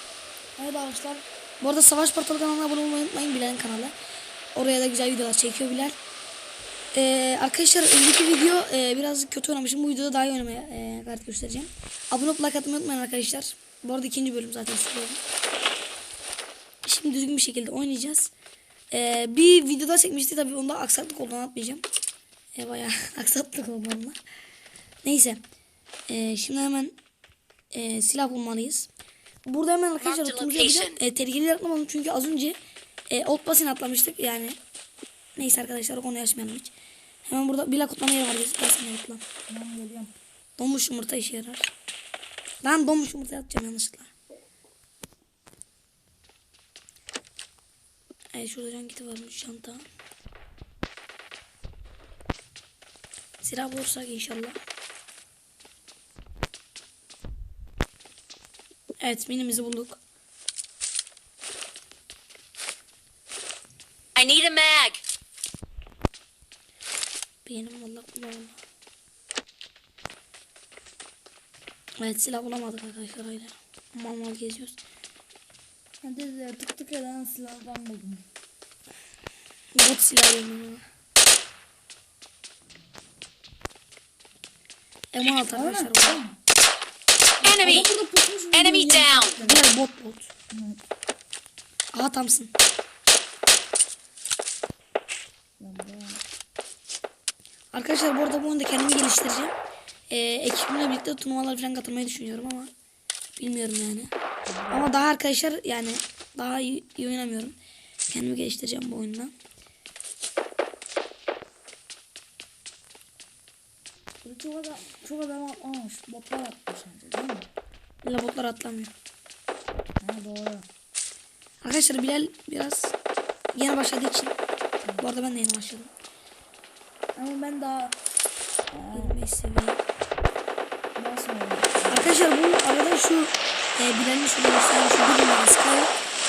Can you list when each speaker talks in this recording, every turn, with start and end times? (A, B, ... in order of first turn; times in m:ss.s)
0:00.6-0:01.2 A
0:01.6-0:04.0 B
0:04.6-0:06.0 B
0:06.9-0:15.2 B
0:16.8-0:18.3 B
0:18.9-0:21.8 B
0:22.6-0:24.2 B
0:25.0-0:25.4 B
0:26.1-0:27.0 B
0:27.7-0:28.9 B
0:29.4-0:32.6 B
0:30.0-0:31.0 C
0:33.1-0:34.6 B
0:35.4-0:36.7 B
0:37.3-0:39.2 B
0:39.5-0:40.1 A
0:40.6-0:41.7 B
0:42.6-0:44.1 B
0:48.3-0:49.8 B
0:53.4-0:54.6 B
0:59.0-1:00.0 B
1:04.2-1:05.0 C
1:07.4-1:08.6 B
1:12.0-1:14.8 B
1:16.0-1:18.2 A
1:19.8-1:20.8 B
1:25.1-1:26.2 B
1:25.5-1:26.4 A
1:27.4-1:27.9 C
1:27.4-1:29.7 A
1:28.5-1:29.4 C
1:29.4-1:30.3 B
1:30.5-1:30.8 A
1:31.9-1:32.5 B
1:35.6-1:36.2 A
1:37.7-1:39.5 B
1:40.1-1:42.7 B
1:43.4-1:44.1 B
1:44.5-1:45.0 A
1:44.7-1:47.6 B
1:48.1-1:49.3 B
1:54.2-1:57.5 A
1:58.0-1:58.9 B
2:00.0-2:00.7 A
2:01.6-2:02.9 B
2:03.5-2:04.4 B
2:05.0-2:05.9 B
2:07.2-2:08.0 A
2:08.7-2:09.2 A
2:08.9-2:09.8 B
2:11.0-2:12.2 A
2:11.9-2:15.9 B